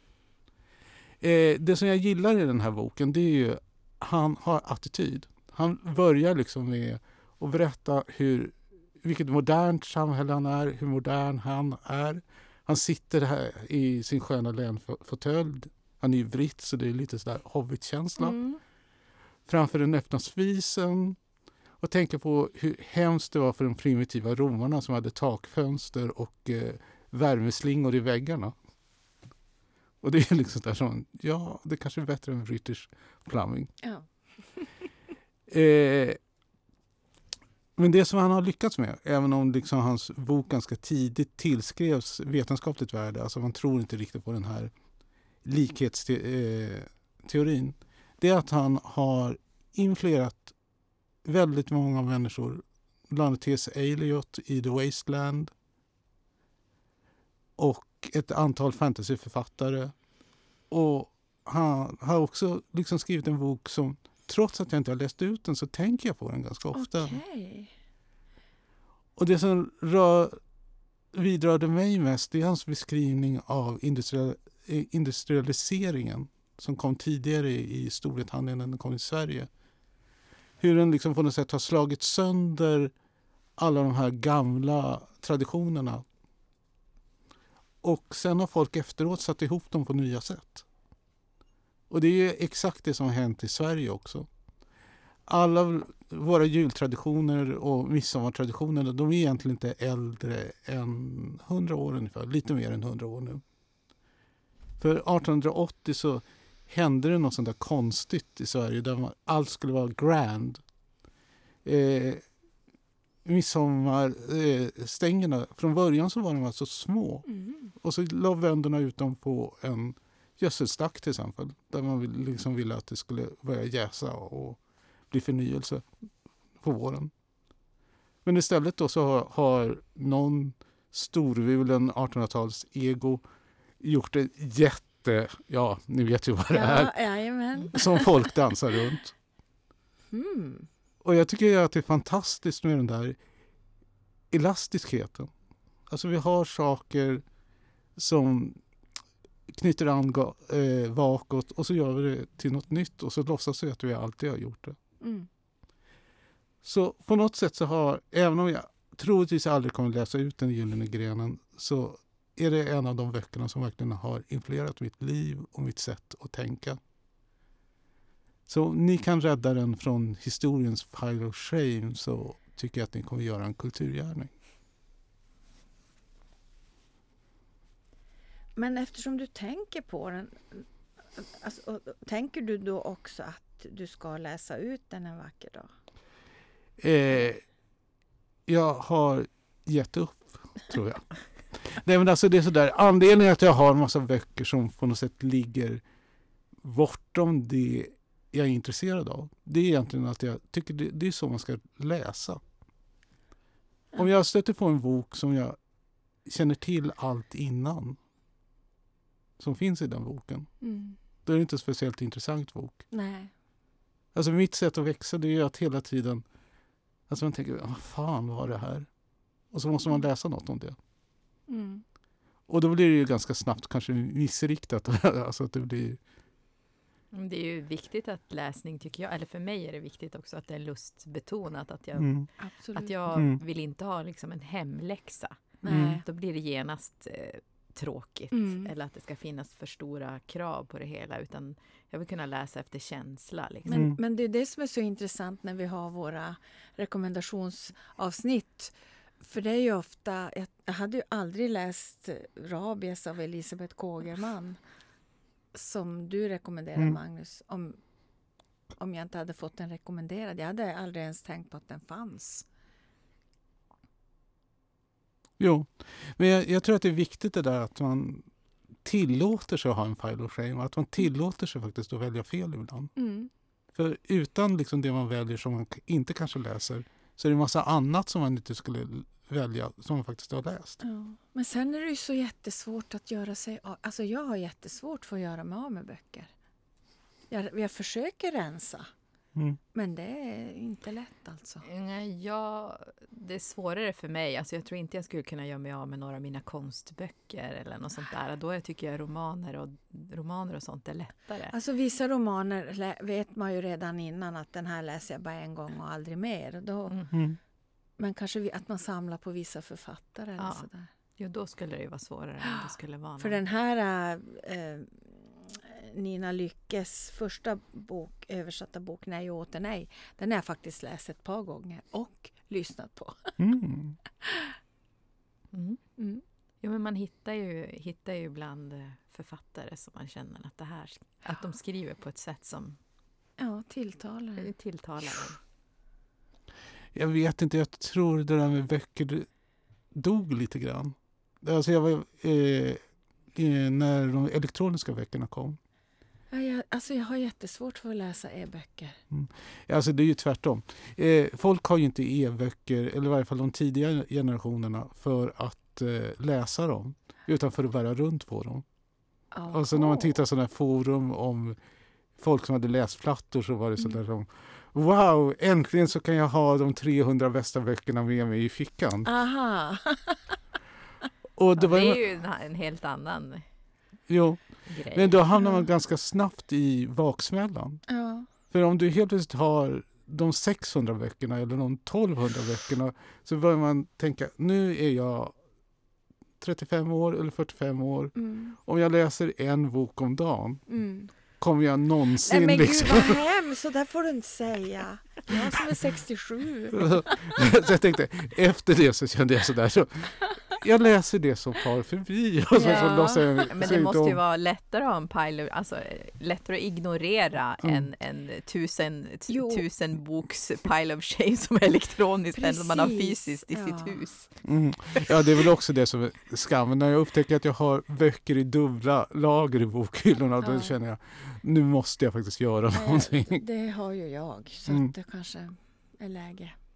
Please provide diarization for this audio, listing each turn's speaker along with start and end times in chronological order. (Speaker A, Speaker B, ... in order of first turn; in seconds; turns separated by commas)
Speaker A: 1.2-18.4, Speaker B: 18.2-18.6, Speaker A: 19.4-21.2, Speaker A: 21.8-28.5, Speaker A: 30.0-33.7, Speaker A: 35.5-36.2, Speaker A: 37.8-44.7, Speaker A: 45.4-50.5, Speaker A: 51.2-55.5, Speaker A: 57.6-59.9, Speaker A: 60.7-67.2, Speaker B: 66.7-67.7, Speaker A: 69.2-70.4, Speaker A: 71.1-79.5, Speaker A: 80.6-82.9, Speaker A: 83.6-86.0, Speaker A: 87.8-90.7, Speaker A: 91.9-94.3, Speaker A: 95.3-103.4, Speaker A: 104.8-110.6, Speaker A: 111.6-112.2, Speaker A: 113.2-124.6, Speaker B: 117.3-117.7, Speaker A: 125.1-125.9, Speaker A: 126.6-127.1, Speaker A: 128.2-133.2, Speaker A: 133.8-136.9, Speaker B: 136.5-138.3, Speaker A: 137.7-139.1, Speaker B: 140.1-140.7, Speaker A: 141.0-143.2, Speaker A: 144.3-145.3, Speaker A: 145.9-147.2, Speaker A: 147.9-148.6, Speaker A: 149.5-154.8, Speaker B: 155.0-155.3, Speaker A: 156.6-166.8, Speaker A: 168.5-174.3, Speaker B: 178.6-180.6, Speaker B: 181.2-185.7, Speaker A: 186.8-187.4, Speaker A: 188.5-195.8, Speaker A: 196.6-202.4, Speaker A: 203.9-205.6, Speaker A: 206.2-208.0, Speaker A: 209.4-210.5, Speaker B: 210.6-211.0, Speaker A: 211.2-212.8, Speaker B: 212.9-213.3, Speaker A: 214.1-216.2, Speaker A: 217.1-218.9, Speaker A: 219.5-220.8, Speaker B: 221.5-221.8, Speaker A: 222.5-226.0, Speaker C: 227.1-232.2, Speaker A: 232.0-232.3, Speaker B: 232.4-232.9, Speaker C: 232.7-243.8, Speaker A: 233.1-233.4, Speaker B: 235.6-236.0, Speaker A: 235.7-236.0, Speaker B: 238.3-238.7, Speaker B: 243.7-254.6, Speaker A: 243.7-243.9, Speaker B: 255.5-257.8, Speaker B: 258.8-262.4, Speaker A: 265.4-268.3, Speaker A: 268.8-272.9, Speaker B: 272.9-273.3, Speaker A: 273.7-280.8, Speaker B: 280.8-286.3, Speaker B: 287.3-288.9, Speaker B: 289.7-291.6, Speaker C: 291.6-301.5, Speaker B: 301.5-307.0, Speaker A: 307.1-307.4, Speaker B: 308.0-310.9, Speaker C: 310.4-310.6, Speaker C: 311.2-313.4, Speaker B: 312.5-323.4, Speaker A: 323.4-324.0, Speaker B: 324.2-324.5, Speaker C: 325.5-325.8, Speaker B: 326.0-326.2, Speaker C: 326.6-332.8, Speaker B: 333.4-334.5, Speaker C: 334.4-335.4, Speaker A: 336.9-339.3, Speaker A: 339.9-342.8, Speaker A: 343.3-345.6, Speaker B: 346.3-349.0, Speaker A: 349.1-358.6, Speaker B: 359.3-360.1, Speaker A: 359.5-361.6, Speaker A: 362.2-369.1, Speaker B: 369.0-370.4, Speaker A: 371.4-372.0, Speaker C: 371.6-373.4, Speaker A: 374.1-377.8, Speaker C: 374.7-375.2, Speaker B: 377.9-378.3, Speaker A: 378.5-385.3, Speaker A: 386.4-390.6, Speaker B: 388.1-388.6, Speaker B: 390.7-391.1, Speaker A: 391.4-393.2, Speaker B: 392.2-397.4, Speaker A: 396.7-404.2, Speaker B: 402.5-403.4, Speaker C: 402.6-415.4, Speaker B: 409.3-409.6, Speaker B: 412.3-414.0, Speaker A: 414.4-423.4, Speaker B: 420.4-420.7, Speaker B: 422.7-426.5